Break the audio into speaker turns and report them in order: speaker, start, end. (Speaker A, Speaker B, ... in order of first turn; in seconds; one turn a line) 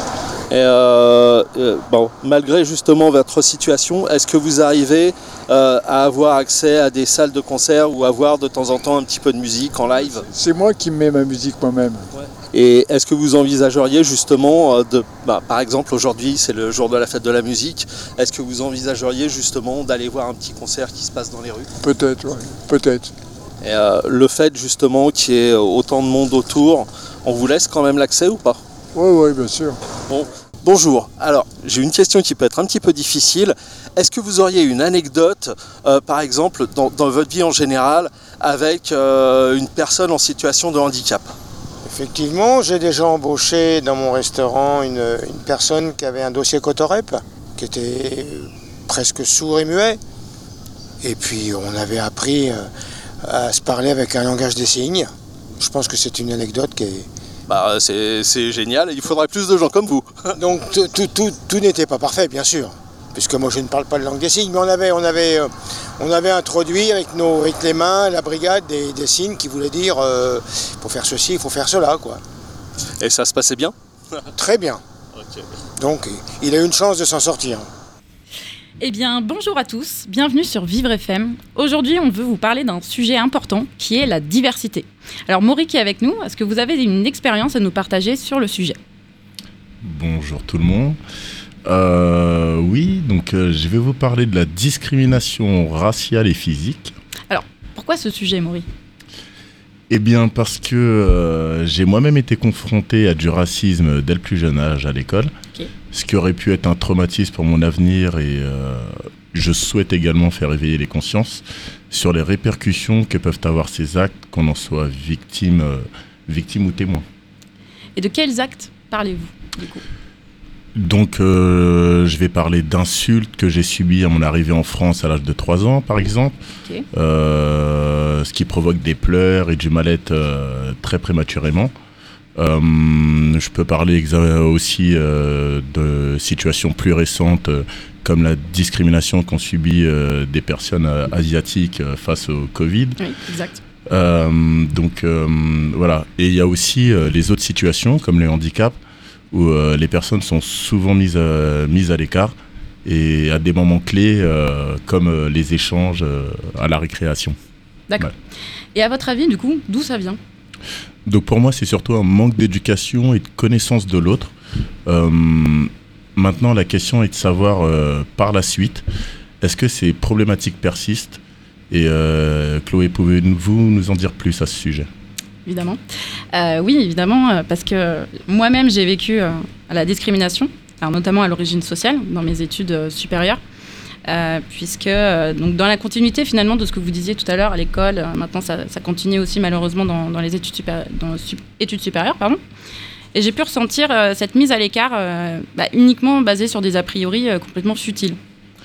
Speaker A: 0.5-10.3
Speaker B: 10.3-12.1
Speaker A: 12.1-21.7
Speaker B: 21.8-23.1
Speaker A: 23.6-28.6
Speaker B: 28.9-29.8
Speaker A: 30.1-41.3
Speaker C: 41.8-50.0
Speaker C: 51.0-52.7
Speaker C: 53.2-57.1
Speaker A: 57.5-60.3
Speaker C: 60.4-72.2
Speaker A: 73.0-74.3
Speaker C: 74.4-74.8
Speaker A: 75.2-75.4
Speaker C: 75.8-77.7
Speaker D: 78.8-88.8
Speaker E: 89.8-91.0
Speaker E: 91.7-96.9
Speaker D: 97.3-98.7
Speaker E: 99.9-105.3
Speaker E: 105.9-117.0
Speaker D: 118.0-119.8
Speaker E: 120.7-126.3
Speaker E: 126.9-131.7
Speaker E: 132.4-143.1
Speaker D: 143.0-143.6
Speaker E: 143.9-148.8
Speaker E: 149.3-152.3
Speaker E: 152.8-157.3
Speaker D: 158.7-160.2
Speaker E: 161.1-164.3
Speaker E: 164.9-168.8
Speaker E: 169.4-174.9
Speaker D: 175.4-175.8
Speaker D: 176.3-183.4
Speaker D: 184.1-192.4
Speaker D: 193.1-198.2